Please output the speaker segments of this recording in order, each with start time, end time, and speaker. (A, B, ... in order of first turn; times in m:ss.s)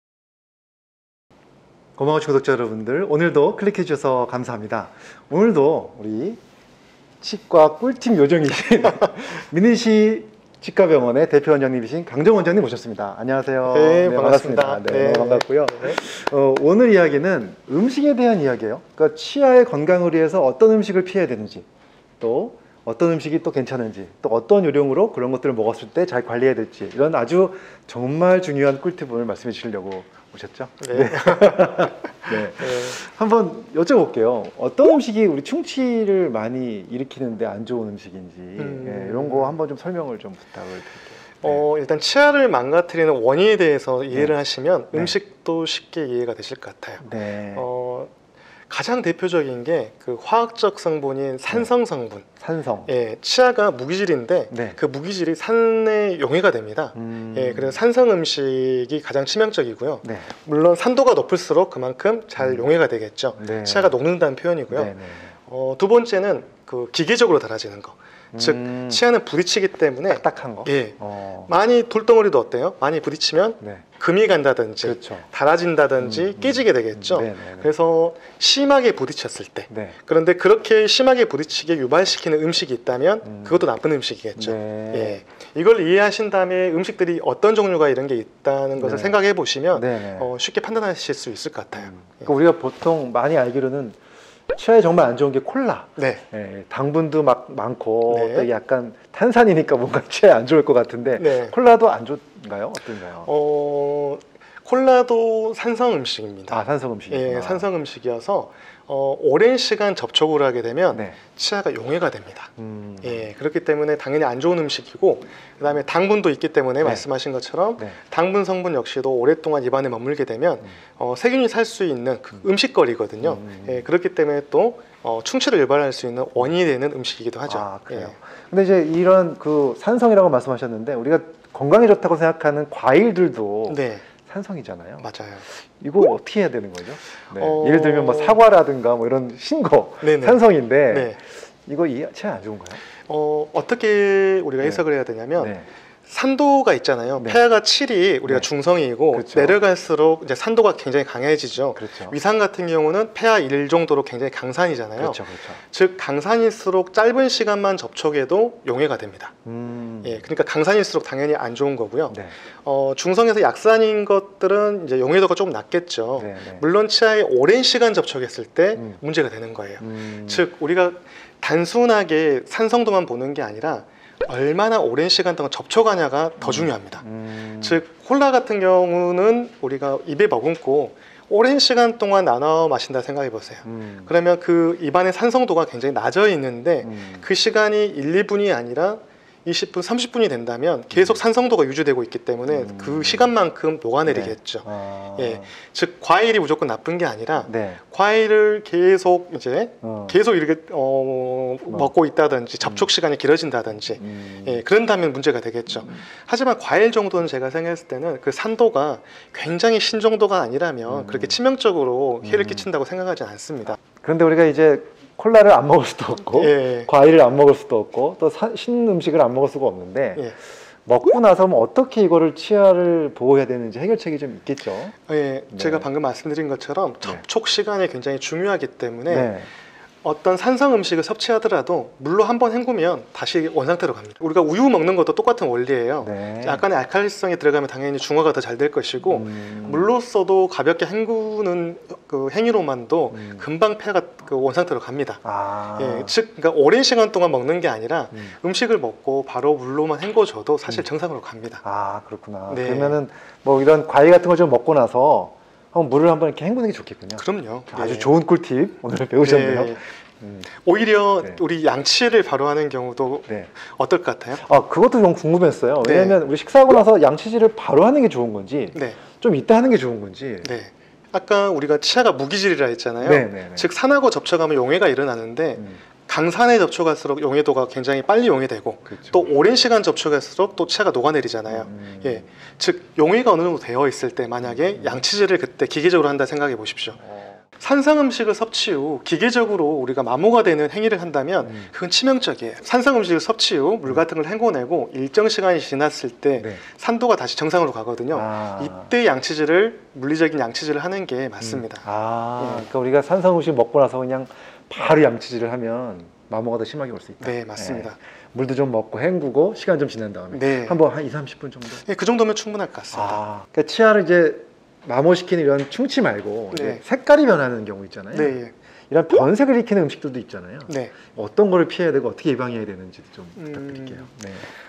0:02.0-0:06.4 A
0:07.2-0:21.6 A
0:13.7-0:16.0 B
0:22.2-0:41.6 A
0:30.8-0:33.0 B
0:38.6-0:39.5 B
0:41.4-0:48.1 B
0:47.0-0:47.7 A
0:48.7-0:52.2 B
0:52.4-0:52.9 A
0:52.8-1:04.9 B
0:54.5-0:54.8 A
0:56.9-0:57.8 A
1:00.0-1:00.3 A
1:02.4-1:02.7 A
1:03.4-1:03.9 A
1:04.7-1:05.3 A
1:05.4-1:32.3 B
1:08.3-1:09.0 A
1:10.1-1:11.5 A
1:14.8-1:15.3 A
1:16.0-1:17.7 A
1:19.7-1:20.0 A
1:23.2-1:23.7 A
1:24.4-1:25.2 A
1:28.8-1:29.2 A
1:29.7-1:30.3 A
1:31.8-1:34.0 A
1:34.5-1:43.3 A
1:36.0-1:36.2 B
1:38.1-1:38.5 B
1:41.2-1:41.5 B
1:43.2-2:08.1 B
1:46.5-1:47.7 A
1:52.6-1:53.3 A
2:03.2-2:03.8 A
2:07.5-2:15.1 A
2:13.7-2:14.0 B
2:15.0-2:15.4 B
2:15.8-2:22.8 A
2:17.4-2:18.4 B
2:20.0-2:21.2 B
2:23.1-2:25.5 B
2:25.4-2:25.7 A
2:26.0-2:39.3 B
2:29.1-2:29.6 A
2:31.7-2:32.2 A
2:35.0-2:35.6 A
2:39.4-2:40.2 A
2:40.0-2:57.0 B
2:42.1-2:42.3 A
2:46.2-2:46.6 A
2:49.8-2:50.4 A
2:56.4-2:57.8 A
2:57.6-3:33.8 B
3:03.6-3:04.1 A
3:06.8-3:07.3 A
3:10.9-3:11.2 A
3:12.5-3:13.3 A
3:14.0-3:15.5 A
3:17.4-3:17.8 A
3:19.8-3:20.2 A
3:22.6-3:22.9 A
3:24.0-3:24.6 A
3:30.9-3:31.4 A
3:32.2-3:32.7 A
3:33.9-3:40.3 A
3:36.3-3:36.9 B
3:40.8-3:44.9 A
3:45.1-3:49.3 B
3:45.5-3:45.8 A
3:49.1-3:49.5 A
3:50.0-4:05.2 B
3:56.0-3:56.6 A
3:59.1-3:59.9 A
4:03.1-4:03.5 A
4:05.2-4:06.2 A
4:05.7-4:11.6 B
4:11.6-4:20.5 A
4:12.5-4:13.0 B
4:17.2-4:18.1 B
4:19.2-4:19.8 B
4:20.5-4:24.4 B
4:24.4-4:30.5 A
4:25.8-4:26.2 B
4:28.7-4:29.0 B
4:30.4-4:47.0 B
4:33.0-4:33.7 A
4:35.6-4:35.8 A
4:38.9-4:39.2 A
4:41.5-4:42.2 A
4:44.4-4:45.0 A
4:47.0-4:47.4 A
4:47.6-5:01.8 B
4:51.4-4:51.7 A
4:58.1-4:58.9 A
5:01.4-5:11.8 A
5:02.4-5:02.7 B
5:07.2-5:08.0 B
5:10.3-5:10.8 B
5:11.8-5:13.2 B
5:12.9-5:18.4 A
5:16.5-5:16.8 B
5:18.1-5:18.5 B
5:18.9-5:24.5 A
5:20.7-5:20.9 B
5:23.4-5:24.1 B